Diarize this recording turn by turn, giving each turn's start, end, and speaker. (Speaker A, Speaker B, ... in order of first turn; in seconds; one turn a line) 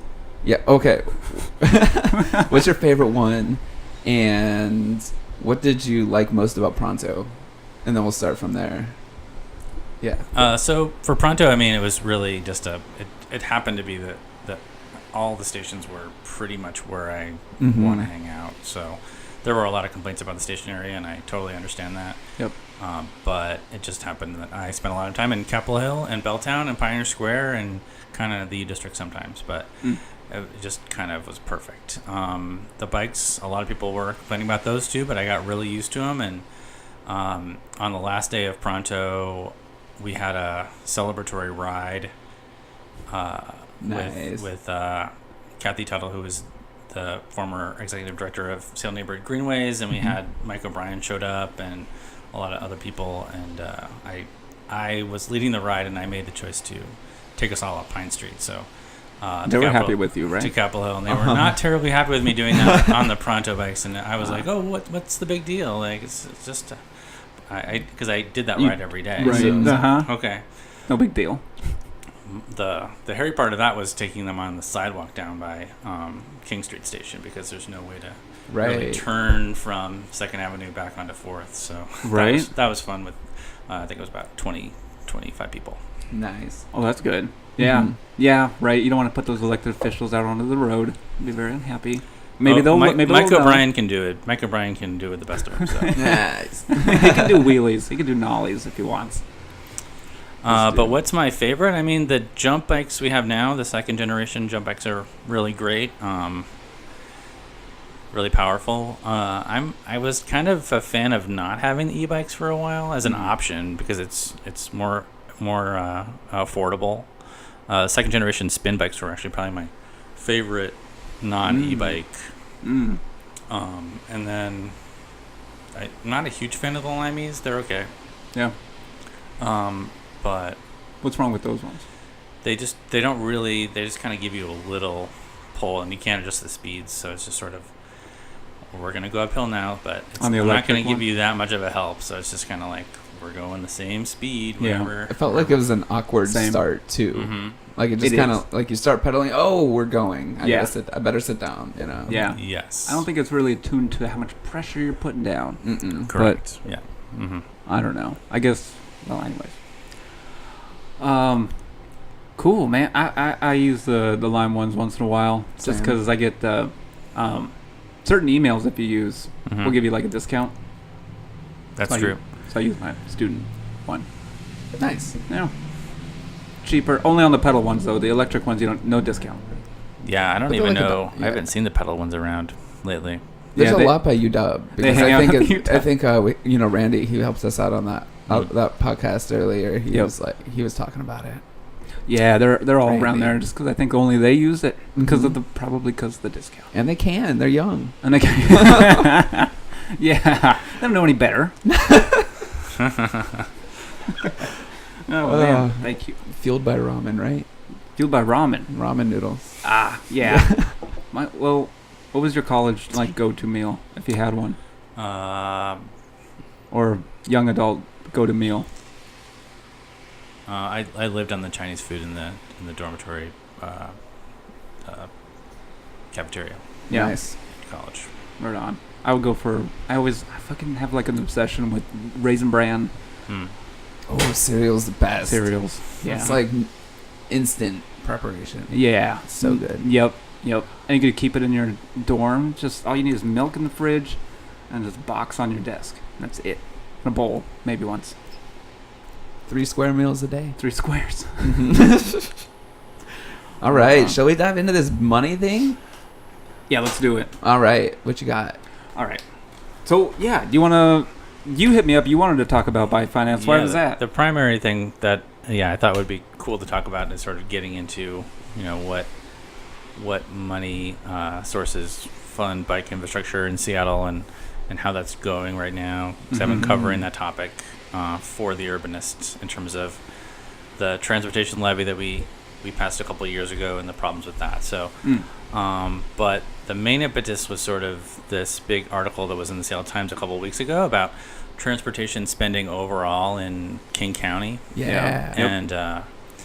Speaker A: 0.4-7.3
Speaker A: 7.8-8.9
Speaker A: 10.0-10.5
Speaker B: 10.3-22.2
Speaker A: 17.6-18.1
Speaker B: 22.8-36.5
Speaker B: 37.1-42.1
Speaker B: 43.1-58.7
Speaker A: 43.8-44.5
Speaker B: 59.2-70.4
Speaker C: 59.5-60.5
Speaker A: 61.1-61.6
Speaker C: 68.6-70.1
Speaker A: 69.2-69.8
Speaker C: 70.9-71.8
Speaker B: 72.3-85.8
Speaker A: 78.5-79.0
Speaker C: 82.0-82.5
Speaker A: 86.1-86.7
Speaker C: 86.7-93.7
Speaker A: 87.6-87.9
Speaker B: 92.4-96.2
Speaker C: 95.9-96.2
Speaker A: 96.0-97.3
Speaker C: 96.8-99.2
Speaker B: 100.4-106.5
Speaker A: 100.5-100.9
Speaker B: 108.1-117.1
Speaker B: 117.7-122.3
Speaker C: 121.4-122.0
Speaker C: 122.6-123.0
Speaker B: 123.5-124.8
Speaker B: 125.7-127.9
Speaker B: 129.4-130.6
Speaker C: 131.0-131.9
Speaker B: 132.4-137.7
Speaker B: 138.7-145.6
Speaker C: 140.2-141.0
Speaker C: 144.6-144.9
Speaker A: 145.1-152.4
Speaker C: 146.3-146.6
Speaker B: 147.1-147.6
Speaker C: 148.0-148.4
Speaker C: 150.4-150.7
Speaker C: 152.1-156.4
Speaker B: 152.2-153.1
Speaker A: 155.6-156.1
Speaker B: 156.1-157.5
Speaker C: 157.7-159.6
Speaker C: 161.0-161.6
Speaker C: 162.4-170.5
Speaker A: 165.6-166.0
Speaker B: 169.5-169.8
Speaker B: 171.8-172.2
Speaker C: 171.9-174.1
Speaker A: 174.8-175.2
Speaker C: 176.6-179.5
Speaker B: 180.0-183.2
Speaker A: 180.5-181.4
Speaker A: 183.5-191.4
Speaker C: 183.6-184.2
Speaker C: 184.8-185.9
Speaker C: 192.1-196.7
Speaker A: 192.8-193.4
Speaker A: 195.0-195.3
Speaker A: 196.7-199.0
Speaker C: 198.0-201.6
Speaker A: 201.7-202.3
Speaker C: 205.1-206.2
Speaker A: 205.2-207.5
Speaker C: 208.0-208.7
Speaker A: 208.7-209.6
Speaker C: 209.6-214.6
Speaker A: 210.2-210.7
Speaker B: 215.0-215.9
Speaker C: 216.7-218.7
Speaker B: 220.5-224.0
Speaker B: 224.8-225.1
Speaker B: 226.1-226.8
Speaker C: 226.9-227.2
Speaker A: 226.9-227.3
Speaker B: 227.6-228.1
Speaker C: 228.4-232.9
Speaker B: 233.3-233.5
Speaker A: 234.1-236.7
Speaker C: 235.3-236.4
Speaker A: 237.3-239.8
Speaker C: 238.7-248.1
Speaker A: 249.5-250.6
Speaker C: 250.6-251.7
Speaker A: 251.4-252.4
Speaker A: 253.6-255.8
Speaker C: 253.7-254.2
Speaker C: 256.7-257.3
Speaker A: 257.4-258.6
Speaker C: 258.9-259.2
Speaker C: 259.9-264.0
Speaker B: 263.3-269.1
Speaker B: 269.9-280.0
Speaker C: 276.3-276.8
Speaker B: 280.8-296.1
Speaker A: 294.7-295.6
Speaker C: 294.8-295.2